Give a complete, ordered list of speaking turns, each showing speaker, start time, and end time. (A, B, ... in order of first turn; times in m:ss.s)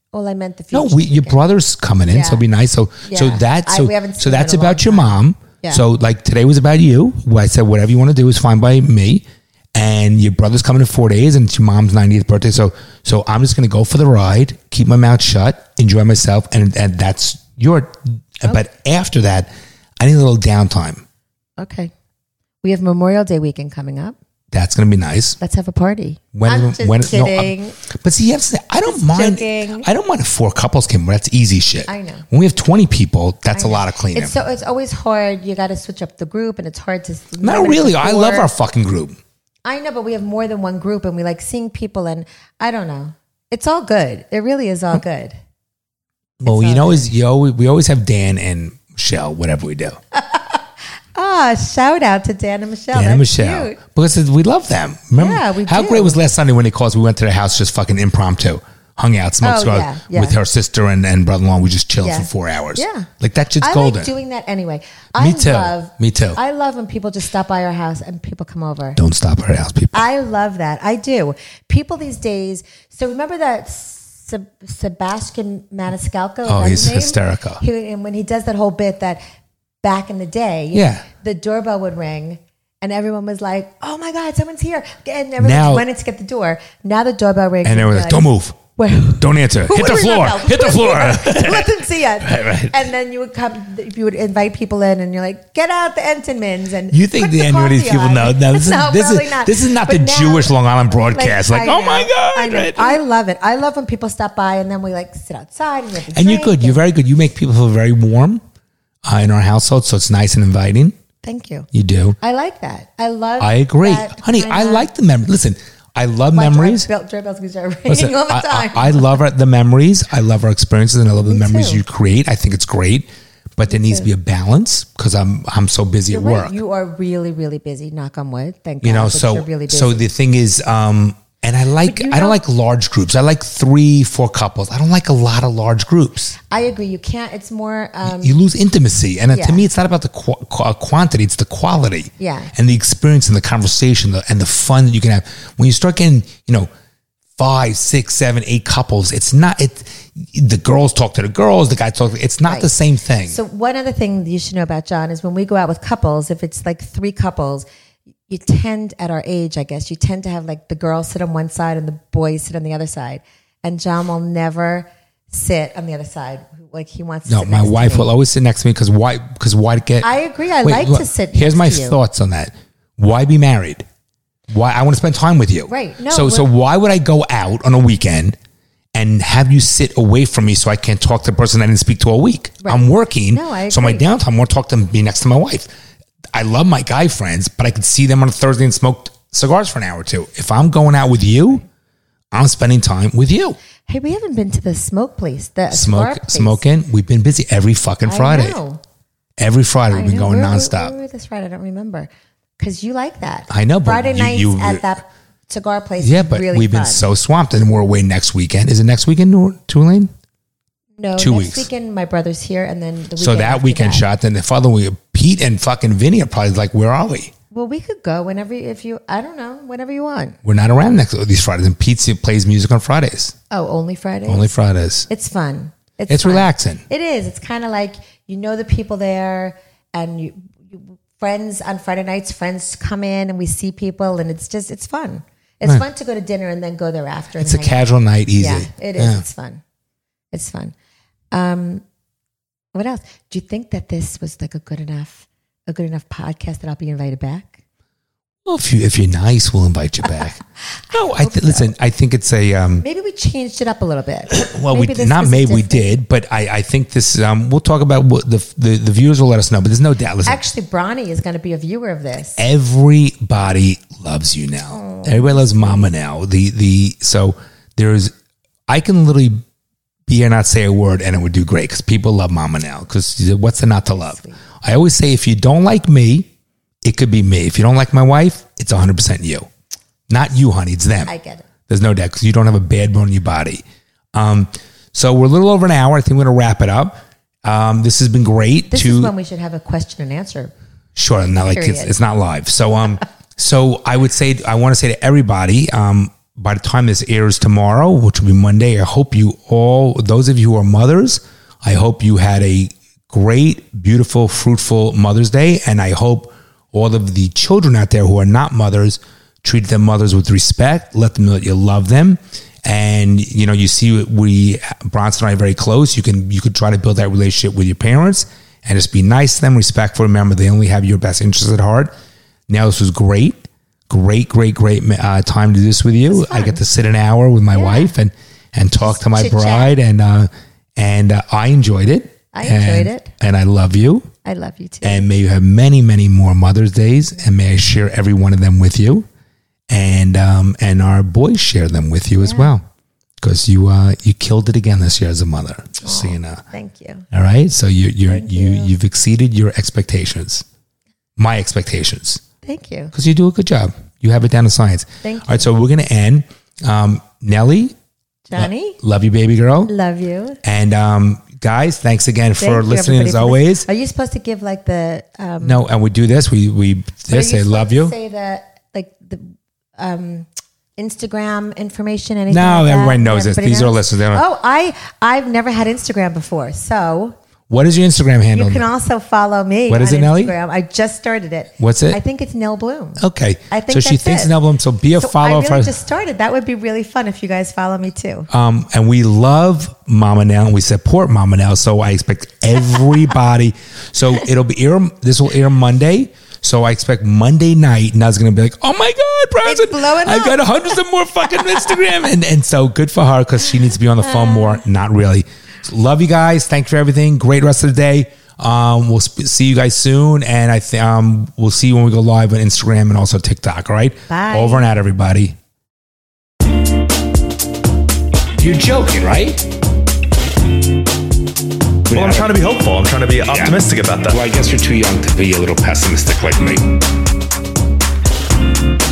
0:00.1-0:01.4 A
0:00.7-0:21.0 B
0:02.1-0:02.4 A
0:03.0-0:05.8 A
0:21.6-0:21.9 A
0:22.6-0:24.2 A
0:24.5-0:25.4 B
0:25.4-0:27.8 A
0:26.3-0:34.3 B
0:28.9-0:29.9 A
0:31.8-0:32.2 A
0:33.5-0:38.5 A
0:37.4-0:39.2 B
0:39.6-0:45.4 A
0:46.4-0:50.0 B
0:46.4-0:47.1 A
0:50.1-0:50.6 A
0:51.1-0:53.8 A
0:52.9-1:04.1 B
0:55.2-0:56.2 A
0:59.4-1:00.4 A
1:02.0-1:03.1 A
1:03.6-1:09.0 A
1:05.2-1:06.4 B
1:09.0-1:10.0 B
1:09.9-1:19.2 A
1:16.4-1:17.6 B
1:19.8-1:46.8 A
1:20.7-1:21.0 B
1:25.4-1:25.8 B
1:27.6-1:28.6 B
1:29.2-1:32.7 B
1:36.9-1:43.0 B
1:46.1-1:48.4 B
1:49.0-1:50.9 B
1:51.2-1:51.7 A
1:51.7-1:52.2 B
1:52.2-1:54.9 A
1:53.4-1:56.9 B
1:56.3-1:59.2 A
1:57.9-2:06.6 B
2:01.2-2:01.8 A
2:03.7-2:04.1 A
2:06.1-2:10.0 A
2:08.8-2:16.4 B
2:11.8-2:12.4 A
2:16.5-2:18.4 A
2:18.0-2:26.7 B
2:19.3-2:19.6 A
2:22.2-2:22.5 A
2:27.4-2:33.4 B
2:32.4-2:32.7 A
2:33.3-2:37.6 A
2:38.3-2:48.1 A
2:47.3-2:50.1 B
2:50.0-2:52.0 A
2:50.6-2:53.8 B
2:54.5-2:58.4 B
2:55.7-2:56.5 A
2:58.9-3:05.7 B
3:02.6-3:04.1 A
3:06.3-3:11.6 B
3:12.3-3:13.6 B
3:13.9-3:16.6 A
3:15.7-3:18.6 B
3:18.0-3:18.8 A
3:19.4-3:20.9 B
3:19.9-3:27.0 A
3:23.5-3:24.8 B
3:26.0-3:30.1 B
3:31.0-3:34.0 A
3:31.2-3:31.7 B
3:33.2-3:37.3 B
3:37.5-3:40.4 A
3:40.4-3:43.3 B
3:43.5-3:44.5 A
3:44.3-3:45.1 B
3:45.1-3:57.8 A
3:46.1-3:46.8 B
3:57.4-3:59.2 B
3:58.4-3:59.6 A
4:00.3-4:00.7 A
4:01.3-4:01.8 A
4:02.7-4:07.6 A
4:08.4-4:12.8 B
4:11.2-4:11.6 A
4:12.8-4:15.9 A
4:14.3-4:20.4 B
4:20.2-4:22.4 A
4:22.4-4:28.1 B
4:24.7-4:25.9 A
4:28.7-4:29.4 B
4:30.1-4:36.3 B
4:33.8-4:34.4 A
4:36.8-4:39.5 B
4:40.1-4:41.1 B
4:41.0-4:41.4 A
4:41.7-4:43.6 B
4:44.1-4:49.1 B
4:48.7-4:50.5 A
4:51.0-5:21.9 B
4:51.2-4:52.0 A
5:22.5-5:23.4 B
5:23.9-5:34.1 B
5:26.1-5:26.6 A
5:27.5-5:27.9 A
5:28.8-5:29.7 A
5:32.3-5:33.1 A
5:34.2-5:35.0 A
5:34.8-5:39.1 B
5:39.7-5:42.6 B
5:42.2-5:42.5 A
5:43.2-5:46.4 B
5:45.8-5:47.1 A
5:47.1-5:50.4 B
5:48.1-5:48.7 A
5:51.2-5:52.2 B
5:52.4-5:52.9 A
5:52.9-5:57.7 B
5:55.0-5:55.5 A
5:58.3-5:58.8 A
5:58.3-5:59.7 B
5:59.7-6:00.4 A
6:00.4-6:03.6 B
6:02.4-6:05.6 A
6:05.4-6:07.9 B
6:07.1-6:10.3 A
6:10.8-6:17.2 A
6:12.3-6:14.2 B
6:17.5-6:18.6 B
6:18.3-6:24.3 A
6:19.7-6:20.3 B
6:21.6-6:22.0 B
6:23.0-6:25.7 B
6:24.9-6:28.3 A
6:28.3-6:55.4 B
6:39.4-6:40.4 A
6:54.1-6:54.7 A
6:58.4-6:59.4 B
7:01.9-7:02.4 B
7:01.9-7:04.2 C
7:03.3-7:06.7 B